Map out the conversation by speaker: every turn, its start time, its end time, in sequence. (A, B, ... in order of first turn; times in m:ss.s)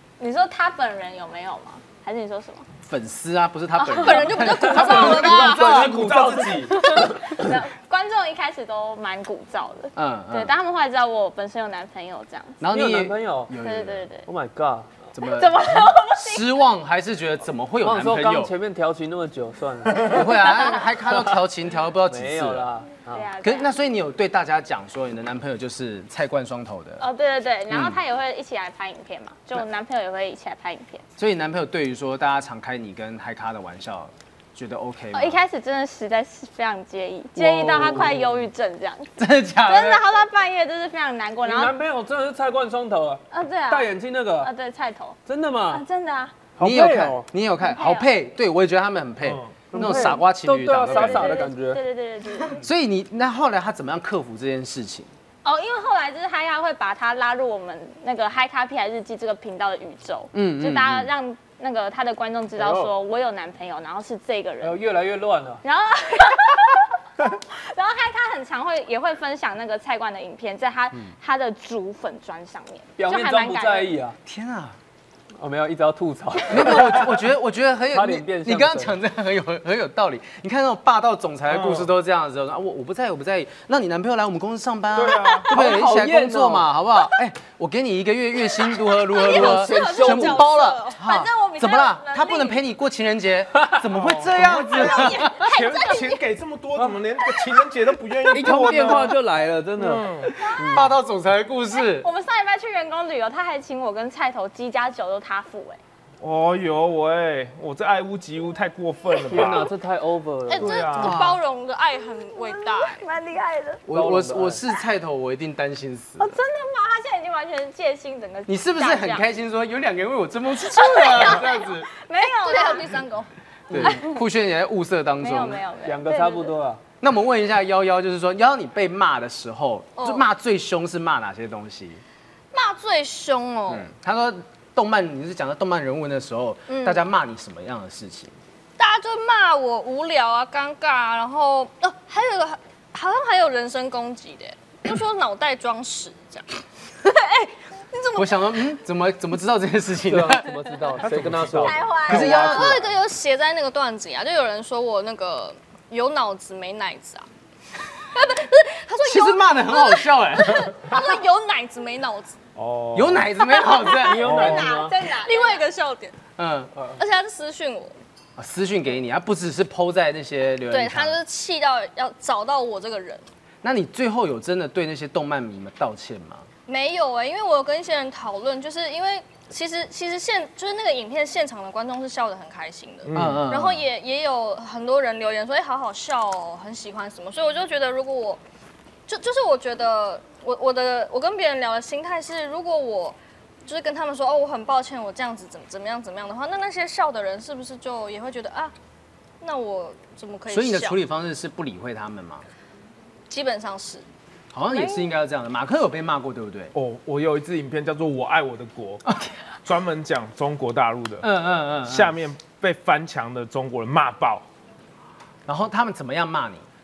0:00.2-0:02.7 A
0:02.8-0:06.0 B
0:03.8-0:05.8 C
0:04.4-0:07.4 D
0:05.4-0:06.8 E
0:06.8-0:12.6 A
0:10.0-0:10.5 B
0:12.6-0:14.1 B
0:12.7-0:13.5 D
0:13.5-0:14.2 A
0:14.3-0:15.0 D
0:15.2-0:18.5 B
0:15.2-0:16.5 A
0:17.8-0:20.6 D
0:20.0-0:22.7 B
0:20.4-0:20.7 A
0:22.1-0:23.3 D
0:23.1-0:23.7 A
0:23.4-0:27.0 B
0:27.0-0:31.0 A
0:27.7-0:28.0 B
0:31.2-0:35.4 B
0:35.1-0:39.1 A
0:37.4-0:38.1 B
0:37.4-0:38.3 D
0:39.2-0:40.1 B
0:39.7-0:41.8 A
0:41.4-0:44.5 D
0:43.3-0:45.2 A
0:45.3-0:45.8 D
0:45.7-0:46.4 A
0:46.6-0:47.3 D
0:46.6-0:51.5 B
0:47.6-0:48.1 A
0:49.3-0:49.6 E
0:49.7-0:51.8 D
0:49.8-0:50.1 A
0:50.9-0:52.6 A
0:52.5-0:55.1 B
0:55.4-1:04.8 A
1:00.3-1:01.1 B
1:02.6-1:02.9 D
1:04.6-1:05.6 D
1:05.6-1:13.9 A
1:13.0-1:14.2 D
1:14.2-1:14.8 B
1:15.4-1:17.3 D
1:16.5-1:35.5 B
1:17.9-1:19.0 D
1:25.0-1:25.5 E
1:25.2-1:25.4 A
1:25.5-1:26.7 D
1:29.1-1:31.3 C
1:29.2-1:30.5 D
1:29.3-1:29.6 A
1:30.9-1:32.6 A
1:33.6-1:34.5 D
1:34.4-1:36.2 A
1:35.3-1:39.2 E
1:38.3-1:40.9 D
1:39.8-1:40.3 E
1:40.4-1:40.9 A
1:40.6-1:42.1 B
1:41.8-1:45.8 A
1:46.2-1:49.7 E
1:49.2-1:50.8 D
1:50.5-1:53.1 C
1:50.6-1:51.2 E
1:51.0-1:51.4 B
1:52.3-1:53.8 A
1:53.9-1:56.4 B
1:53.9-1:54.6 D
1:56.2-1:59.3 A
1:58.5-2:01.9 B
2:00.7-2:03.0 A
2:02.2-2:03.3 C
2:03.7-2:05.6 B
2:03.7-2:04.2 A
2:05.2-2:06.5 A
2:05.8-2:06.8 D
2:07.0-2:12.0 B
2:10.0-2:10.3 C
2:12.5-2:13.9 C
2:13.7-2:18.4 B
2:16.7-2:17.0 C
2:18.8-2:26.5 C
2:27.0-2:28.5 C
2:28.2-2:30.5 B
2:30.1-2:31.8 D
2:31.0-2:32.8 E
2:31.6-2:32.7 A
2:32.1-2:32.9 B
2:32.2-2:37.3 C
2:38.0-2:42.4 C
2:39.0-2:41.0 B
2:42.6-2:43.4 E
2:42.9-2:44.3 B
2:43.5-2:45.6 A
2:43.6-2:46.2 C
2:44.0-2:45.0 D
2:44.2-2:44.8 E
2:46.4-2:46.7 B
2:47.0-2:48.0 C
2:48.4-2:51.2 B
2:50.7-2:53.3 C
2:53.6-2:56.5 B
2:56.7-3:08.4 C
3:03.1-3:03.5 E
3:03.1-3:03.8 B
3:09.1-3:18.7 C
3:19.4-3:21.0 C
3:20.5-3:22.5 B
3:23.3-3:24.0 C
3:24.5-3:26.7 B
3:24.7-3:25.1 A
3:26.7-3:29.1 E
3:29.1-3:29.3 B
3:29.6-3:31.3 E
3:31.2-3:32.1 B
3:31.8-3:34.4 E
3:35.5-3:36.6 B